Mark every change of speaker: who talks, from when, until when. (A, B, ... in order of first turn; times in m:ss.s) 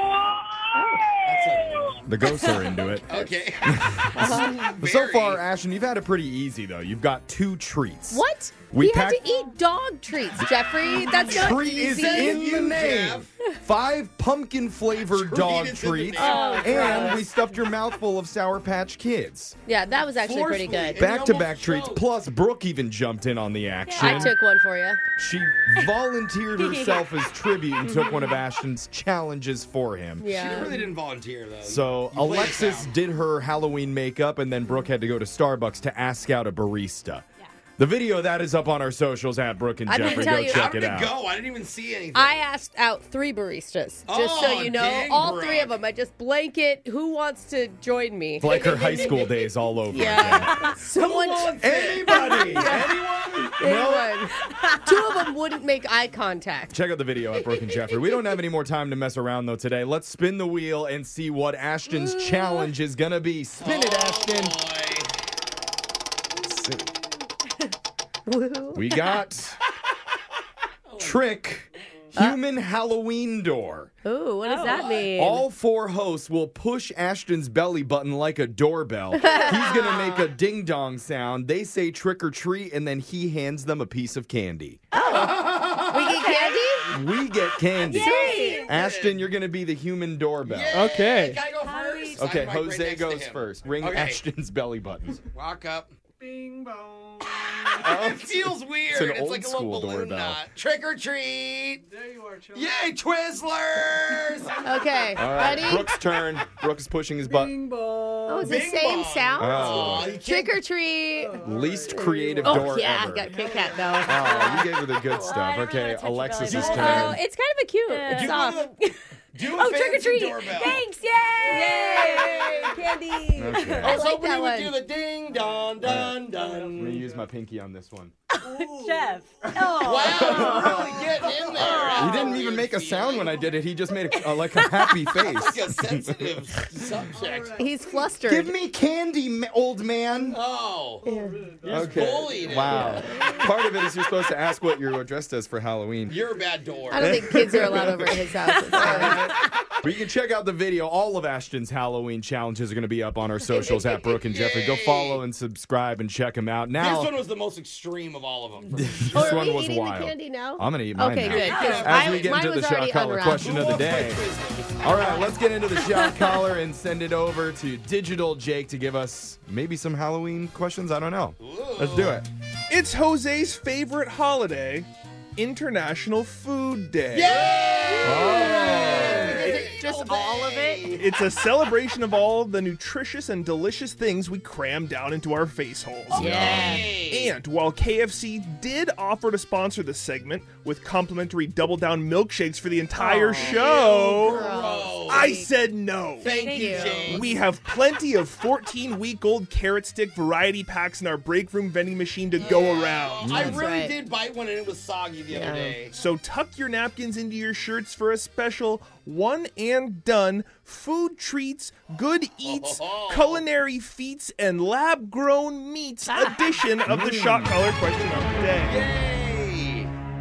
0:00.7-0:01.0 A
0:01.2-0:05.4 B
0:02.0-0:03.1 C
0:03.6-0:09.4 C
0:04.1-0:04.6 A
0:08.1-0:12.6 A
0:11.1-0:19.6 C
0:11.8-0:13.3 B
0:14.9-0:17.2 B
0:16.2-0:17.2 A
0:16.2-0:17.2 D
0:19.7-0:21.1 A
0:20.2-0:22.1 B
0:21.0-0:24.3 C
0:23.9-0:24.3 D
0:24.0-0:25.0 A
0:25.2-0:30.6 C
0:26.6-0:27.0 D
0:27.8-0:28.4 A
0:30.2-0:30.9 A
0:30.3-0:32.9 B
0:31.6-0:37.2 C
0:37.8-0:41.2 C
0:39.8-0:40.7 A
0:40.0-0:42.4 B
0:42.1-0:56.8 A
0:44.1-0:45.8 B
0:48.4-0:50.7 C
0:48.5-0:49.3 B
0:50.2-0:50.7 D
0:50.8-0:52.4 B
0:51.6-0:54.2 C
0:54.4-0:55.0 D
0:56.7-1:04.6 C
1:03.6-1:05.1 B
1:06.4-1:06.9 C
1:08.3-1:09.0 A
1:08.7-1:09.6 C
1:10.8-1:11.3 B
1:11.0-1:13.9 C
1:14.0-1:15.4 A
1:14.4-1:15.0 D
1:15.1-1:24.8 C
1:19.2-1:20.3 A
1:24.9-1:26.9 A
1:25.1-1:26.1 B
1:26.2-1:26.6 D
1:26.9-1:31.0 C
1:27.8-1:28.7 D
1:27.8-1:28.7 A
1:28.3-1:29.2 B
1:30.4-1:34.2 B
1:30.7-1:31.4 E
1:31.5-1:32.2 D
1:32.1-1:35.2 C
1:35.3-1:36.0 B
1:37.2-1:41.8 B
1:37.8-1:40.4 C
1:42.5-1:44.6 B
1:44.6-1:45.9 A
1:45.1-1:47.6 C
1:48.2-1:55.3 A
1:48.4-1:50.6 B
1:49.4-1:50.1 C
1:51.4-1:53.3 C
1:54.0-1:57.2 C
1:54.2-1:57.2 D
1:56.4-1:58.9 A
1:56.5-1:57.1 B
1:57.9-1:58.7 D
1:58.1-1:58.7 B
1:59.3-2:00.8 B
1:59.4-2:02.4 D
2:01.4-2:04.8 A
2:01.6-2:02.8 B
2:03.4-2:04.0 C
2:03.6-2:03.9 D
2:03.8-2:07.0 B
2:05.8-2:06.2 C
2:06.7-2:08.1 C
2:08.4-2:12.4 D
2:09.8-2:13.5 B
2:10.0-2:11.1 C
2:11.8-2:16.7 C
2:14.0-2:15.1 D
2:15.1-2:17.7 B
2:17.6-2:18.5 A
2:18.3-2:20.4 C
2:20.3-2:21.0 B
2:21.0-2:21.5 A
2:21.6-2:26.2 C
2:21.8-2:22.9 B
2:22.7-2:23.3 A
2:26.1-2:27.2 B
2:26.9-2:29.3 A
2:27.0-2:37.1 C
2:33.5-2:34.1 A
2:34.1-2:35.2 B
2:36.8-2:39.2 B
2:38.7-2:44.2 C
2:39.1-2:44.0 A
2:41.3-2:42.4 B
2:41.3-2:41.9 D
2:43.3-2:45.3 B
2:44.8-2:52.3 C
2:44.9-2:45.2 A
2:45.8-2:46.3 D
2:51.4-2:52.2 B
2:52.7-2:57.6 E
2:57.1-3:01.1 B
2:57.9-3:01.0 A
2:58.0-2:59.6 C
2:59.4-2:59.7 E
3:01.0-3:06.3 E
3:06.1-3:06.8 C
3:06.1-3:06.9 A
3:06.2-3:07.3 B
3:07.1-3:14.5 E
3:13.0-3:15.5 A
3:13.2-3:15.3 B
3:15.1-3:16.3 E
3:16.2-3:17.3 B
3:16.3-3:17.2 A
3:16.3-3:17.0 D
3:17.0-3:23.5 E
3:22.4-3:26.0 B
3:23.2-3:23.6 C
3:23.4-3:24.0 A
3:25.3-3:25.8 A
3:26.0-3:38.9 E
3:32.4-3:33.4 B
3:36.9-3:37.6 C
3:38.6-3:39.9 B